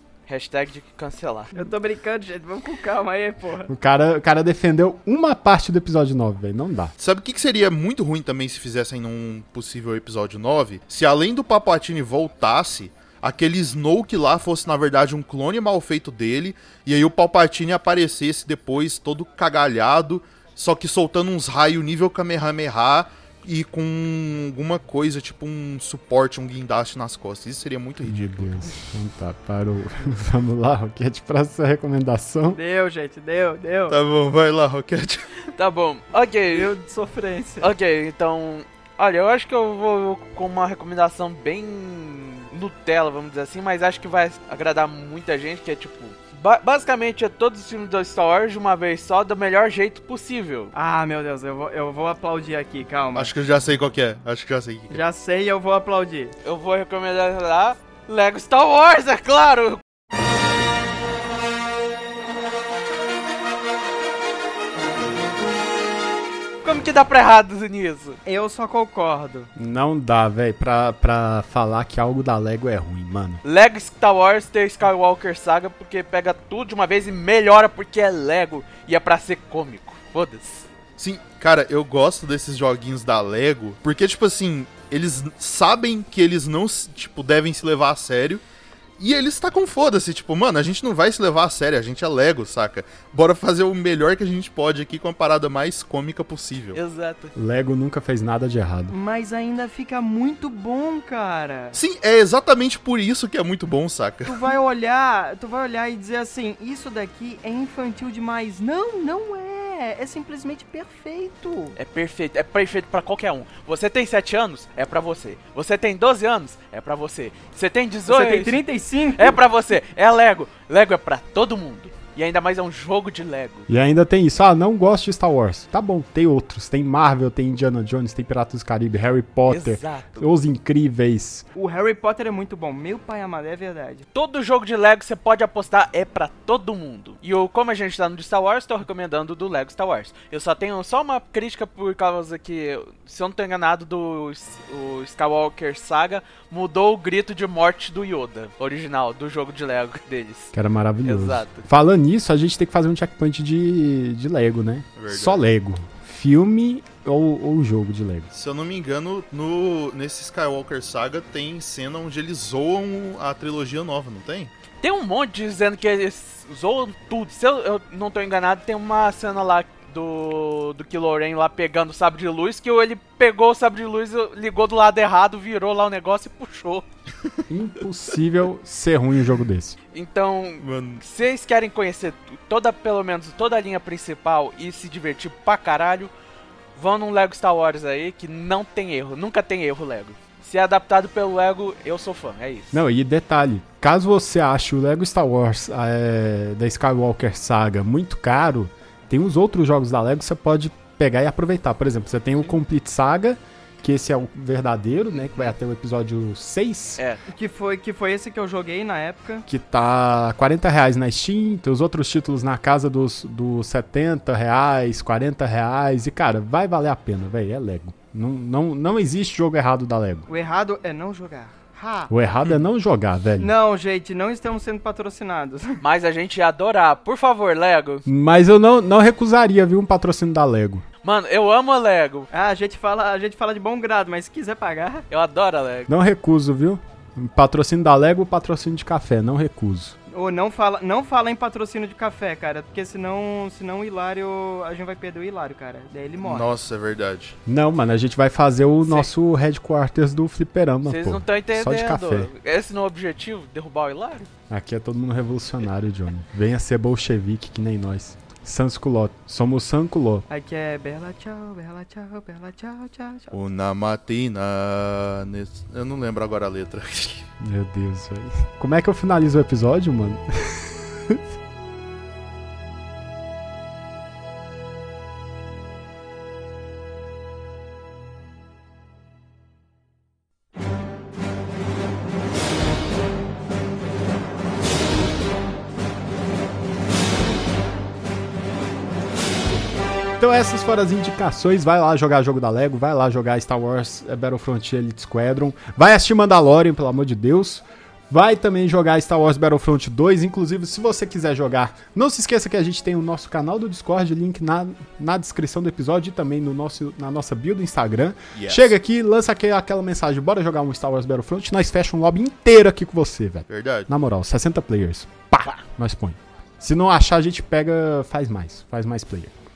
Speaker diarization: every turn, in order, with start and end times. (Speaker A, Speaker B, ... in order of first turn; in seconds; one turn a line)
Speaker A: 0.3-1.5
Speaker B: 1.6-3.7
Speaker C: 3.7-6.9
Speaker D: 7.0-28.8
Speaker C: 28.0-32.6
Speaker B: 32.5-34.0
Speaker D: 33.9-35.3
Speaker A: 35.6-36.7
Speaker B: 36.5-37.7
Speaker A: 37.6-50.7
Speaker B: 50.7-53.3
Speaker D: 53.1-55.0
Speaker B: 54.9-56.3
Speaker A: 56.4-59.8
Speaker A: 66.6-68.2
Speaker B: 68.3-69.5
Speaker C: 69.6-73.4
Speaker A: 73.4-80.7
Speaker D: 81.0-88.4
Speaker D: 89.0-96.8
Speaker A: 96.7-97.3
Speaker C: 97.4-98.9
Speaker B: 98.9-101.8
Speaker D: 101.7-104.4
Speaker B: 104.3-111.8
Speaker A: 111.8-118.6
Speaker B: 118.1-119.4
Speaker A: 119.2-123.7
Speaker C: 123.7-131.4
Speaker A: 129.5-130.3
Speaker B: 131.6-134.1
Speaker A: 134.1-150.5
Speaker C: 150.5-158.3
Speaker A: 151.1-151.7
Speaker D: 155.0-155.4
Speaker D: 158.3-164.5
Speaker A: 164.8-176.9
Speaker C: 177.5-179.8
Speaker A: 179.9-186.1
Speaker D: 180.6-181.0
Speaker A: 186.8-192.8
Speaker C: 192.7-207.0
Speaker B: 207.3-209.5
Speaker C: 209.5-220.3
Speaker B: 220.3-222.1
Speaker C: 222.1-223.5
Speaker B: 223.4-225.8
Speaker A: 225.8-228.1
Speaker C: 228.1-230.8
Speaker A: 231.0-232.3
Speaker B: 232.3-235.1
Speaker A: 235.1-235.9
Speaker C: 235.9-240.0
Speaker B: 240.1-246.5
Speaker D: 246.2-247.4
Speaker C: 247.5-252.3
Speaker A: 248.8-249.1
Speaker A: 250.8-254.3
Speaker C: 254.5-260.3
Speaker B: 260.3-263.4
Speaker D: 263.3-267.3
Speaker C: 267.4-271.2
Speaker C: 290.2-319.3
Speaker D: 308.3-308.8
Speaker D: 313.5-313.9